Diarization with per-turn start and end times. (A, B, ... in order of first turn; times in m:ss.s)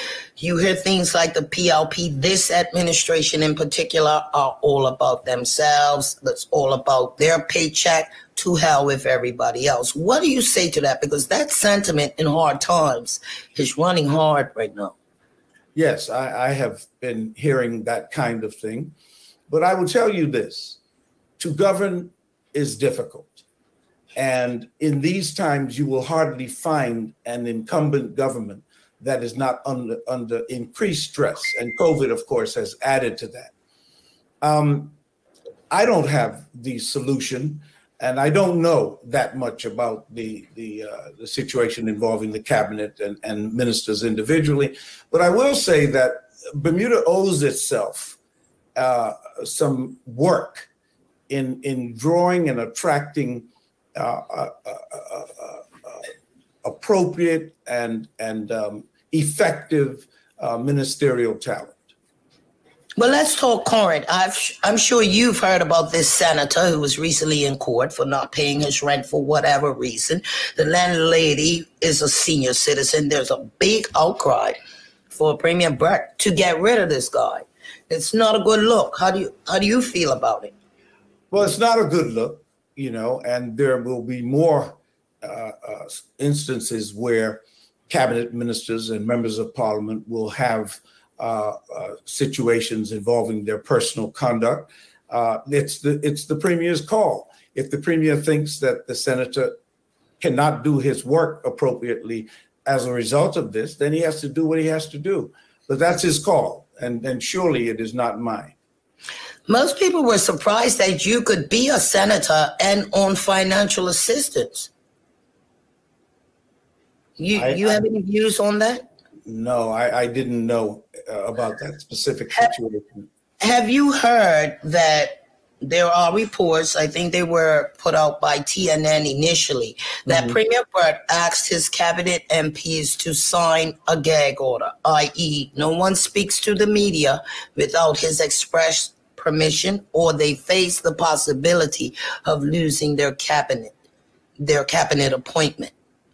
0:00.4-0:14.9 A
0:15.7-0:18.9 B
0:19.5-0:20.8 B
0:21.4-0:23.4 B
0:24.1-0:33.5 B
0:34.4-0:35.0 B
0:35.7-0:48.2 B
0:48.8-0:50.7 B
0:51.3-0:56.0 B
0:56.6-1:01.8 B
1:03.0-1:14.6 A
1:15.1-1:20.5 A
1:21.3-1:39.6 B
1:40.2-1:48.5 B
1:49.5-1:54.7 A
1:57.2-1:58.8 A
1:57.3-1:57.8 B
1:59.2-2:03.1 B
2:03.4-2:23.7 A
2:10.1-2:10.4 B
2:24.4-2:25.7 A